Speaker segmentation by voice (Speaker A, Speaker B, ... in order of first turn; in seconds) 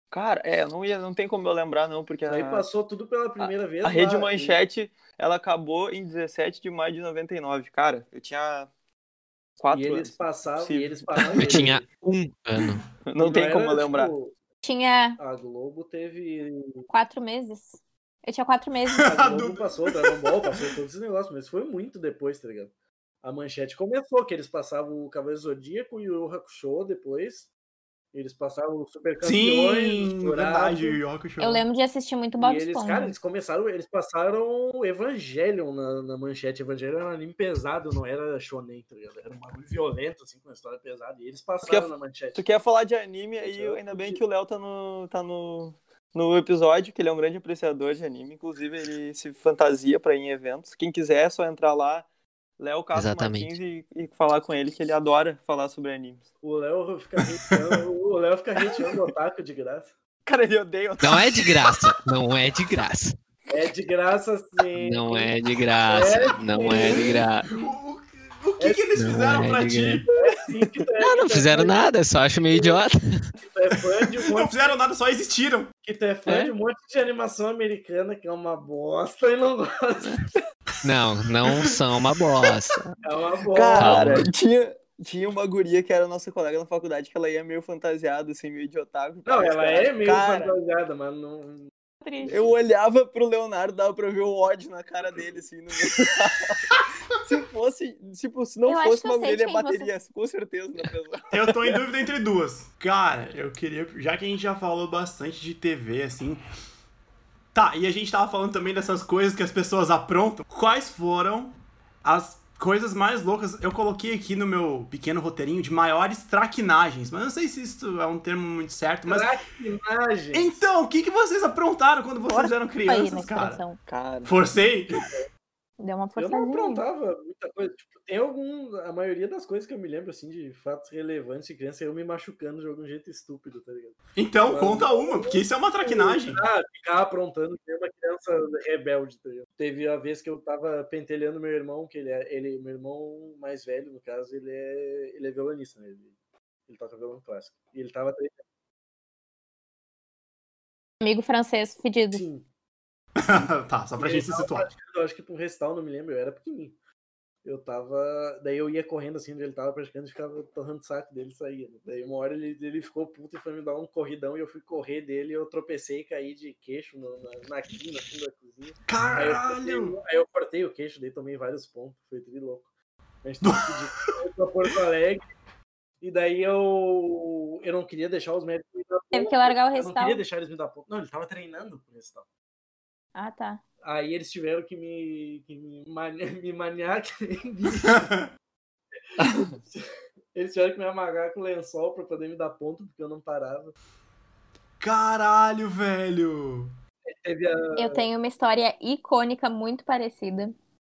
Speaker A: 0.1-2.7, 3.4-8.7, 9.6-11.7, 13.1-14.1, 41.6-52.1, 52.6-56.3, 60.3-61.4, 83.5-90.6, 92.2-96.7, 97.2-101.8, 123.9-124.3
Speaker B: 2.3-4.6, 9.7-11.9, 13.2-14.3, 15.2-16.9, 19.1-22.7, 23.2-27.5, 28.1-31.0, 32.4-42.4, 43.4-44.2, 56.4-59.9, 63.5-65.3, 65.9-67.3, 68.6-68.8, 70.1-71.8, 72.5-72.8, 73.4-74.7, 75.8-80.3, 83.0-84.2, 89.3-91.7, 92.3-92.5, 119.1-120.6, 125.0-125.3, 126.2-146.1, 146.7-148.4, 152.1-152.4, 154.0-156.8, 157.4-172.7, 173.2-175.3, 176.0-182.2, 183.8-188.1, 189.2-193.7, 197.1-198.1
Speaker C: 11.4-12.8, 52.9-53.5, 61.0-63.1, 64.8-67.5, 69.0-70.0, 71.0-73.3, 76.3-76.5, 80.8-83.0, 83.8-84.3
Speaker D: 14.6-15.2, 16.9-19.1, 31.4-33.1, 98.7-99.9, 122.3-123.8, 125.8-126.8, 151.0-152.2, 179.1-180.2, 183.2-183.6, 197.8-200.5
Speaker E: 19.0-20.6, 29.2-31.6, 67.5-70.1, 74.2-75.7, 81.5-81.8, 101.3-106.4, 107.5-119.3, 120.3-123.6, 124.3-125.1, 134.2-136.4, 153.2-154.7, 168.9-170.0, 173.4-174.2, 187.8-188.3, 194.8-196.7